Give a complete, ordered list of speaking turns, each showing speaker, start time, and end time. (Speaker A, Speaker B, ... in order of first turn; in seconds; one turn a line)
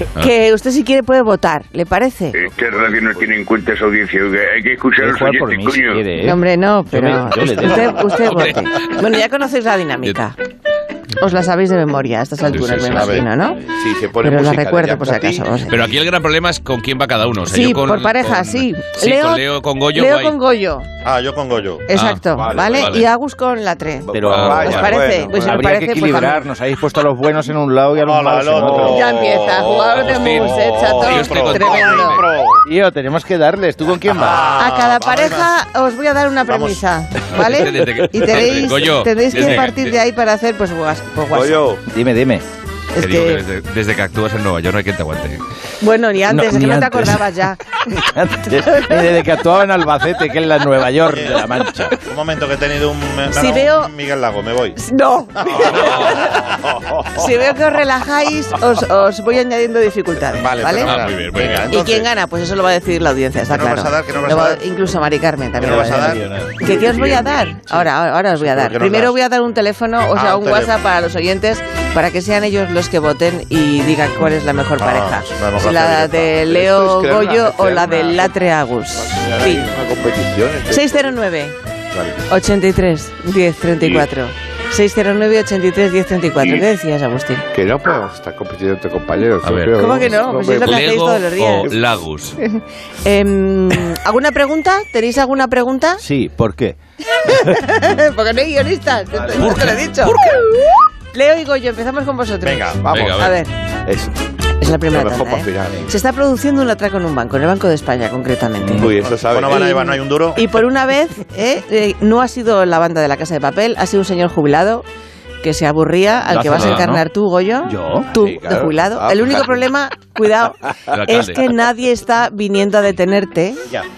Speaker A: 0.2-2.4
Speaker B: 2.3-6.0
Speaker C: 2.4-3.3
Speaker D: 5.0-8.1
Speaker A: 6.2-10.3
Speaker E: 8.1-9.1
Speaker A: 11.2-13.6
Speaker E: 12.6-13.1
Speaker F: 12.8-13.3
Speaker C: 13.7-15.9
Speaker A: 14.2-15.8
Speaker E: 15.7-20.4
Speaker A: 17.5-20.9
Speaker F: 21.0-21.9
Speaker A: 21.9-26.5
Speaker E: 21.9-23.1
Speaker C: 22.3-23.0
Speaker C: 24.1-25.7
Speaker D: 24.1-29.1
Speaker E: 24.2-25.0
Speaker F: 28.0-32.6
Speaker A: 28.7-32.2
Speaker E: 29.7-32.2
Speaker D: 32.6-34.6
Speaker F: 34.0-35.5
Speaker A: 34.5-41.6
Speaker F: 36.5-36.8
Speaker E: 37.3-39.9
Speaker C: 41.3-41.8
Speaker D: 41.9-42.4
Speaker A: 42.9-43.4
Speaker E: 43.0-45.4
Speaker A: 45.8-47.8
Speaker D: 46.2-52.0
Speaker F: 51.1-51.5
Speaker F: 52.0-54.8
Speaker A: 53.3-53.9
Speaker A: 54.8-61.0
Speaker F: 55.4-56.4
Speaker F: 60.4-62.1
Speaker E: 60.8-61.7
Speaker A: 61.7-79.7
Speaker F: 63.5-64.6
Speaker F: 65.6-66.2
Speaker D: 65.6-66.7
Speaker C: 66.7-67.4
Speaker F: 68.4-69.2
Speaker F: 70.1-70.7
Speaker F: 74.8-76.4
Speaker C: 76.4-78.4
Speaker C: 78.9-81.2
Speaker A: 80.7-81.5
Speaker C: 81.9-82.2
Speaker A: 82.3-87.5
Speaker B: 83.8-84.1
Speaker C: 87.5-91.0
Speaker E: 89.4-89.8
Speaker A: 89.8-91.7
Speaker E: 90.6-92.4
Speaker C: 91.5-91.8
Speaker A: 92.4-96.0
Speaker D: 96.0-97.6
Speaker A: 97.1-100.2
Speaker D: 99.2-99.6
Speaker A: 101.1-103.5
Speaker F: 102.4-102.8
Speaker C: 102.8-103.3
Speaker E: 102.9-103.3
Speaker C: 103.8-105.9
Speaker A: 104.6-108.9
Speaker D: 108.7-108.9
Speaker C: 108.7-109.6
Speaker F: 109.1-110.5
Speaker A: 109.5-114.8
Speaker A: 115.4-123.6
Speaker D: 116.3-117.0
Speaker D: 117.6-118.1
Speaker C: 118.1-119.6
Speaker E: 120.9-121.4